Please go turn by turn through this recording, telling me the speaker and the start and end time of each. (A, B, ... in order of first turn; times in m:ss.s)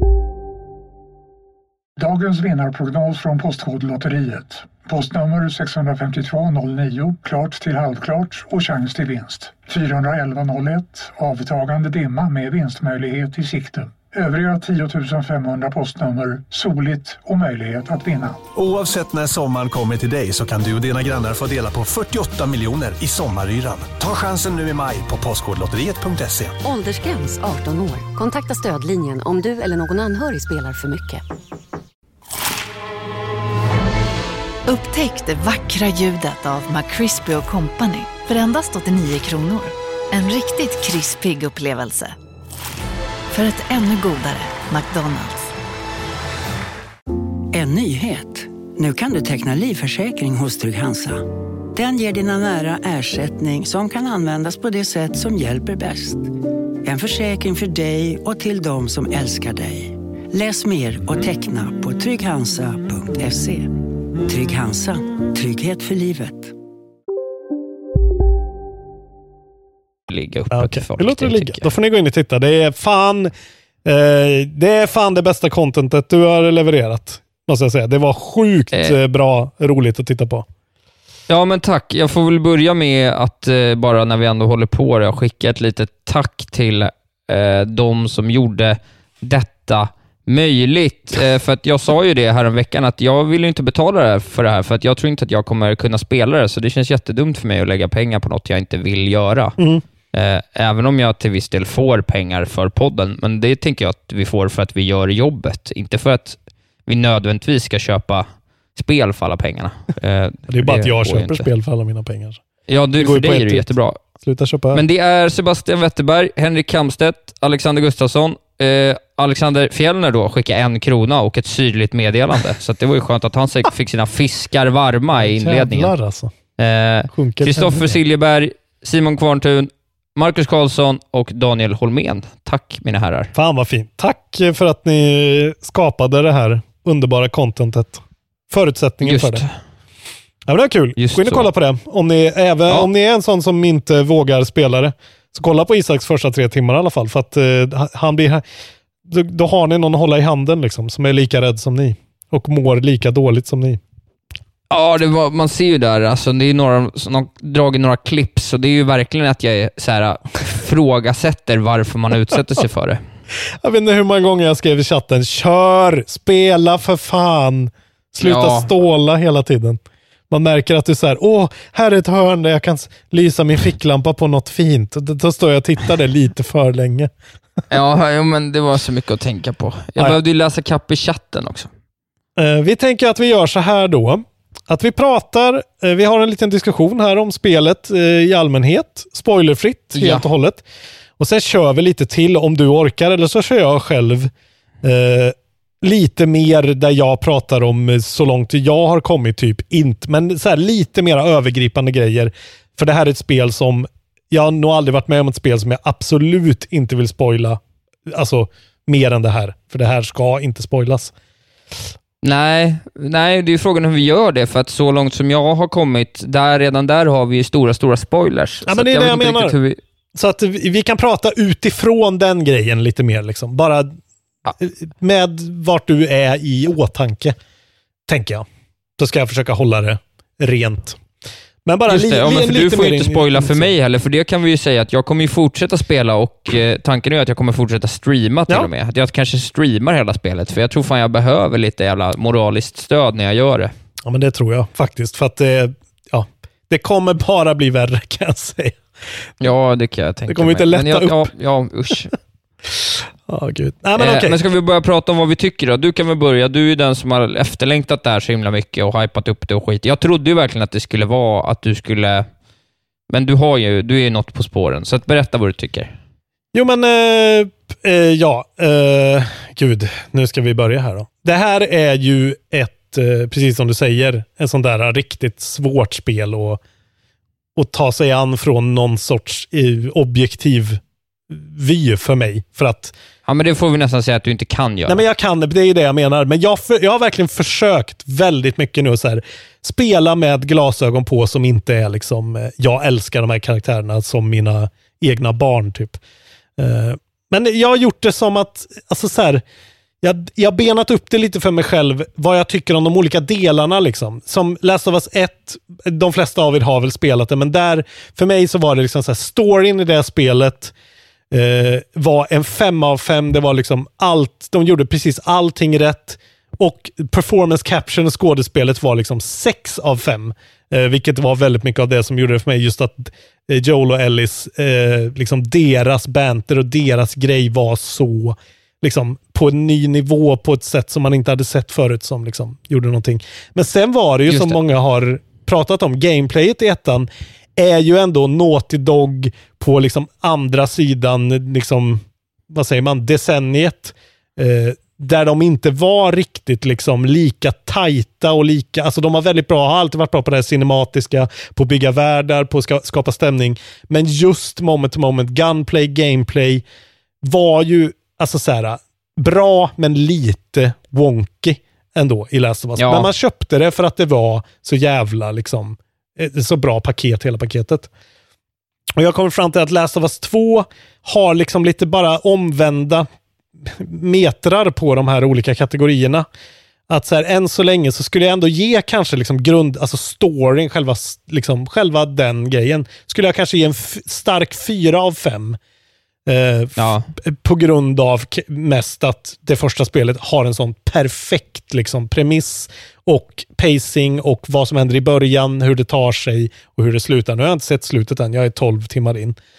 0:02.0-0:18.4 A
0:18.6-0:26.6 B
0:26.6-0:31.2 C
0:34.6-0:42.1 D
0:43.3-0:45.5 D
0:47.5-0:56.3 E
0:56.8-1:06.5 E
1:10.1-1:11.7 F
1:10.5-1:13.3 G
1:13.8-1:20.4 G
1:21.3-1:39.6 F
1:39.6-1:39.8 G
1:40.1-1:51.5 F
1:50.5-1:52.4 G
1:52.7-1:54.0 F
1:53.0-1:54.8 G
1:54.7-2:05.9 F
2:05.1-2:06.3 G
2:06.6-2:13.3 F
2:07.1-2:08.0 G
2:13.3-2:19.4 G
2:19.0-2:19.5 F
2:20.4-2:28.4 G
2:21.0-2:21.5 F
2:29.0-2:33.8 G
2:34.7-2:43.0 F
2:43.6-2:57.1 G
2:48.2-2:48.7 F
2:57.7-3:01.7 F
3:02.4-3:10.6 G
3:10.0-3:10.3 F
3:11.2-3:14.3 G
3:14.8-3:31.1 G
3:32.2-3:39.8 F
3:38.6-3:39.6 G
3:40.1-3:44.0 G
3:44.5-3:47.4 G
3:48.1-3:48.4 G
3:49.0-3:51.0 G
3:51.6-3:53.7 G
3:51.9-4:03.7 F
4:04.0-4:08.8 G
4:09.4-4:12.1 F
4:10.3-4:11.3 G
4:12.7-4:14.4 G
4:14.0-4:22.3 F
4:23.1-4:25.9 F
4:26.5-4:36.6 G
4:37.6-4:42.9 G
4:43.3-4:45.0 F
4:44.9-4:56.0 G
4:56.6-4:59.4 G
5:00.0-5:10.7 G
5:11.3-5:56.6 G
5:34.3-5:34.6 F
5:57.2-6:07.9 G
6:02.8-6:03.1 F
6:09.0-6:13.1 G
6:13.6-6:16.3 G
6:16.9-6:25.6 G
6:26.3-6:39.4 G
6:26.8-6:27.1 F